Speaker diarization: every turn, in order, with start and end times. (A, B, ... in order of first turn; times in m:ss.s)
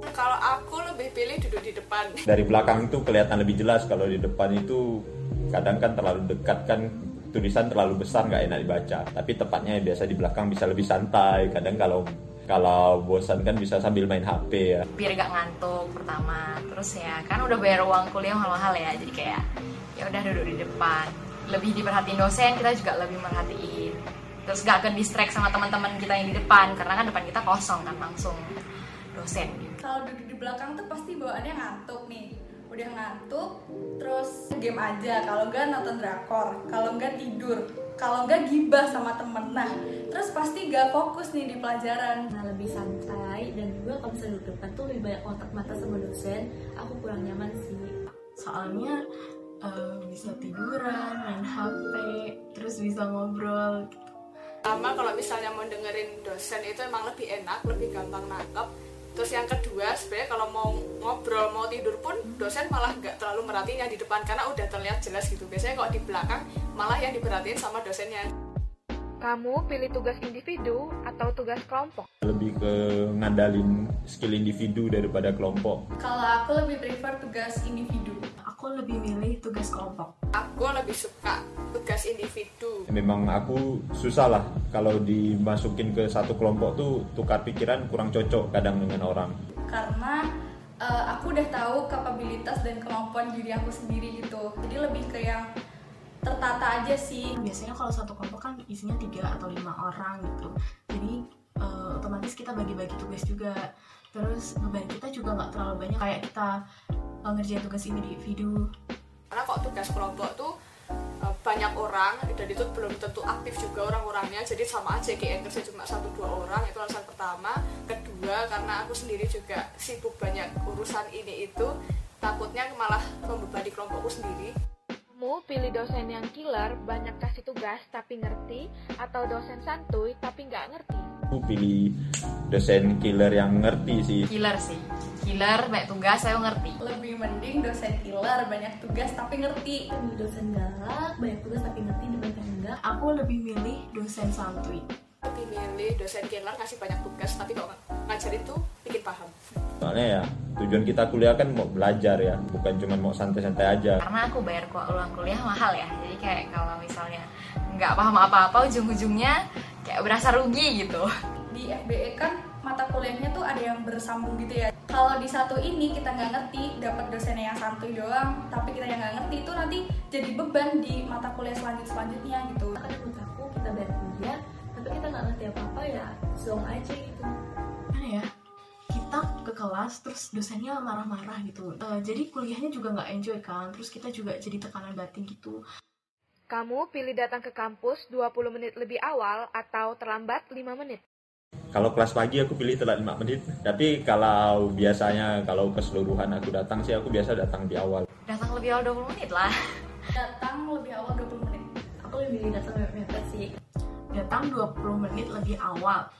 0:00.1-0:02.2 A
0:02.3-0:14.8 B
0:14.9-0:19.4 C
0:20.0-0:28.4 C
0:29.1-0:29.8 C
0:29.8-0:42.2 D
0:42.4-0:47.9 E
0:48.4-0:49.0 F
0:49.6-0:54.1 F
0:54.7-1:08.3 A
1:09.2-1:12.1 G
1:12.2-1:15.8 B
1:16.0-1:18.2 D
1:18.4-1:20.1 F
1:20.4-1:22.8 A
1:22.9-1:29.3 B
1:29.7-1:30.2 D
1:30.8-1:35.4 D
1:36.2-1:37.3 D
1:37.4-1:43.6 F
1:44.1-1:46.5 F
1:47.2-1:48.7 F
1:49.3-1:50.5 A
1:51.3-2:01.7 A
2:02.2-2:04.5 A
2:05.2-2:11.1 G
2:11.3-2:12.0 B
2:12.5-2:14.3 B
2:14.3-2:16.8 C
2:16.8-2:19.8 D
2:19.9-2:22.8 E
2:22.8-2:24.9 F
2:25.2-2:29.4 A
2:29.8-2:34.0 B
2:34.0-2:41.1 C
2:41.5-2:52.8 D
2:52.8-2:57.3 E
2:57.9-2:58.3 F
2:58.9-3:05.6 F
3:06.5-3:11.0 G
3:11.7-3:18.0 B
3:18.3-3:19.5 C
3:20.1-3:21.6 D
3:22.0-3:23.5 E
3:24.1-3:26.0 F